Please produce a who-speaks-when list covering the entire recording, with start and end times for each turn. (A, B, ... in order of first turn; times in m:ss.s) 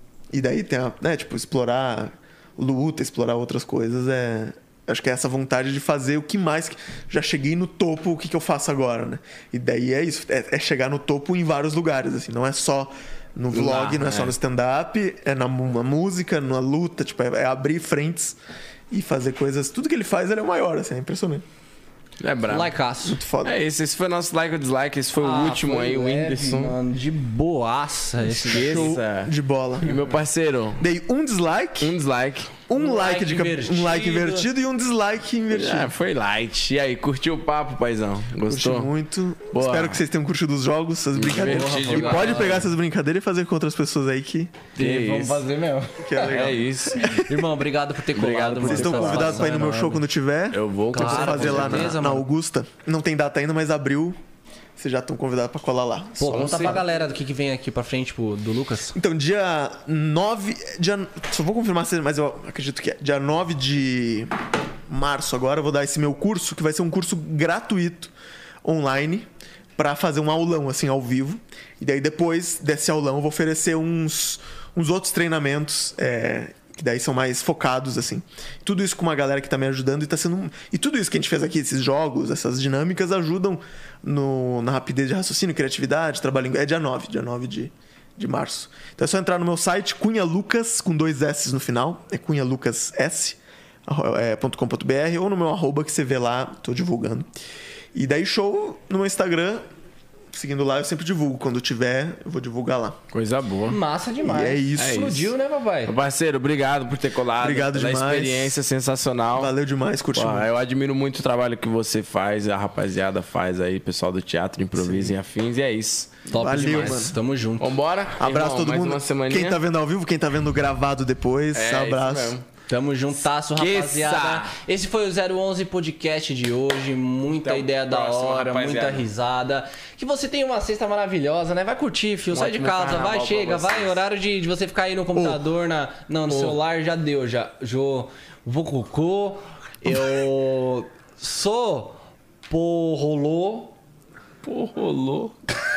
0:00.3-0:18.4 A
0:13.5-0:14.3 B
0:18.9-0:21.4 A
0:22.2-0:22.7 B
0:22.5-0:23.2 C
0:23.0-0:23.6 A
0:23.4-0:26.8 B
0:25.2-0:28.9 C
0:28.2-0:30.8 B
0:28.5-0:29.9 A
0:30.8-0:31.9 A
0:31.8-0:32.6 B
0:32.7-0:35.9 A
0:32.7-0:34.5 C
0:35.5-0:38.9 B
0:38.4-0:44.7 A
0:39.5-0:40.0 B
0:41.2-0:42.6 B
0:41.2-0:42.7 C
0:44.8-0:50.0 C
0:44.8-0:45.4 B
0:46.0-0:47.4 A
0:46.2-0:47.2 B
0:48.1-0:49.5 B
0:48.6-0:54.2 A
0:50.5-0:52.0 B
0:50.9-0:52.3 C
0:54.8-0:56.8 A
0:56.2-0:59.0 C
0:56.3-0:56.8 B
0:58.9-1:08.1 A
1:08.6-1:37.3 A
1:37.9-1:39.6 A
1:40.3-1:43.0 A
1:43.1-1:43.8 B
1:43.7-1:45.9 C
1:44.2-1:45.2 A
1:44.8-1:45.3 B
1:45.8-1:49.5 B
1:47.4-1:48.6 A
1:49.3-1:50.5 A
1:50.1-1:56.3 B
1:54.8-1:55.2 A
1:56.3-1:57.8 C
1:56.3-1:57.2 A
1:57.6-1:59.6 B
1:58.2-2:02.3 A
2:01.5-2:02.4 B
2:02.7-2:23.7 C
2:03.5-2:04.5 B
2:07.4-2:09.1 B
2:12.3-2:14.0 B
2:15.1-2:15.4 A
2:16.3-2:16.6 B
2:24.4-2:25.4 B